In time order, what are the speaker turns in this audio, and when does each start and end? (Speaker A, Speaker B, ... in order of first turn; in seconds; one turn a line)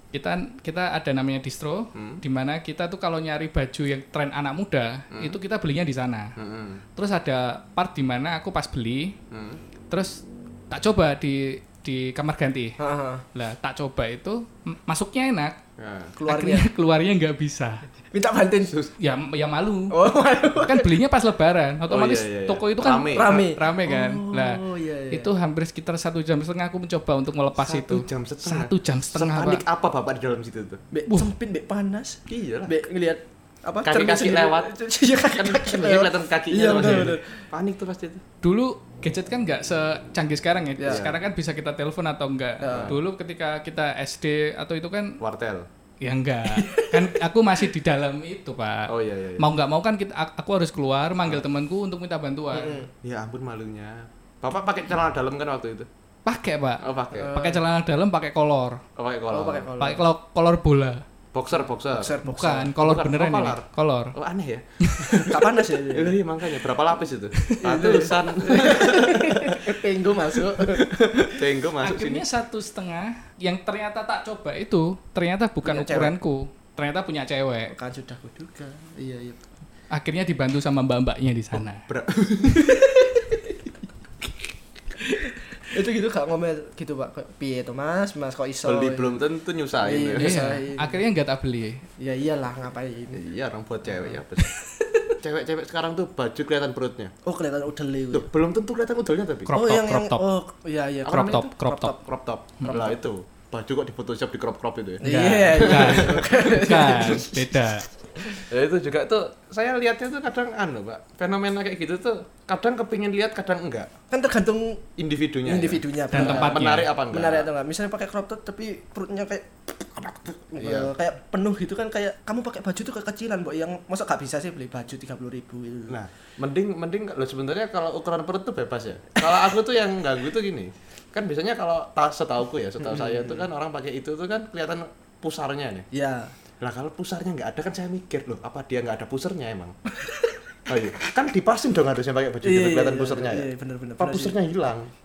Speaker A: 0.1-6.3
Speaker B: 1.9-2.2
Speaker B: 5.1-5.4
Speaker B: 6.4-6.8
Speaker A: 7.0-9.2
Speaker B: 9.3-9.6
Speaker A: 9.9-12.8
Speaker C: 12.8-13.2
Speaker A: 13.3-15.6
Speaker B: 15.8-16.1
Speaker C: 16.2-16.7
Speaker A: 16.2-17.8
Speaker C: 18.1-18.8
Speaker B: 18.7-18.9
Speaker A: 19.0-20.0
Speaker C: 19.9-20.9
Speaker A: 20.5-29.6
Speaker B: 21.9-23.5
Speaker C: 23.1-25.3
Speaker B: 27.7-30.8
Speaker C: 30.9-37.4
Speaker B: 32.3-32.8
Speaker B: 33.8-34.7
Speaker B: 35.3-38.2
Speaker A: 38.4-45.2
Speaker C: 40.8-41.0
Speaker B: 40.8-41.2
Speaker C: 42.6-43.0
Speaker B: 42.7-43.0
Speaker B: 45.2-45.7
Speaker A: 46.0-52.8
Speaker C: 46.5-47.2
Speaker B: 48.9-49.5
Speaker C: 52.5-52.9
Speaker B: 53.0-55.9
Speaker A: 56.2-58.8
Speaker B: 56.8-57.4
Speaker C: 57.1-57.6
Speaker B: 59.0-59.7
Speaker C: 59.3-60.0
Speaker A: 59.8-61.0
Speaker B: 61.3-62.1
Speaker C: 61.9-62.8
Speaker A: 62.2-64.2
Speaker B: 62.8-69.8
Speaker A: 64.8-65.3
Speaker C: 65.3-66.2
Speaker C: 67.5-71.4
Speaker B: 70.3-72.2
Speaker A: 71.8-77.7
Speaker C: 75.6-76.1
Speaker C: 77.7-79.4
Speaker A: 79.9-81.8
Speaker B: 81.9-82.8
Speaker C: 82.7-83.4
Speaker A: 85.0-85.3
Speaker C: 85.3-89.2
Speaker B: 88.6-90.3
Speaker C: 89.8-91.0
Speaker A: 90.2-91.8
Speaker C: 92.0-93.2
Speaker B: 93.1-94.5
Speaker B: 95.2-97.1
Speaker C: 97.2-98.3
Speaker B: 98.1-99.5
Speaker A: 99.5-100.2
Speaker C: 99.5-102.0
Speaker B: 101.0-101.5
Speaker A: 101.1-101.9
Speaker B: 102.0-106.4
Speaker A: 102.6-102.9
Speaker C: 105.0-107.3
Speaker A: 105.0-107.8
Speaker B: 108.5-113.9
Speaker C: 114.1-114.8
Speaker B: 115.0-117.5
Speaker C: 115.4-126.0
Speaker A: 116.1-116.9
Speaker B: 120.6-120.9
Speaker B: 125.9-135.8
Speaker C: 132.8-133.4
Speaker C: 135.9-136.3
Speaker B: 136.6-139.7
Speaker C: 140.0-140.4
Speaker B: 140.7-143.5
Speaker C: 142.4-144.4
Speaker B: 144.0-144.9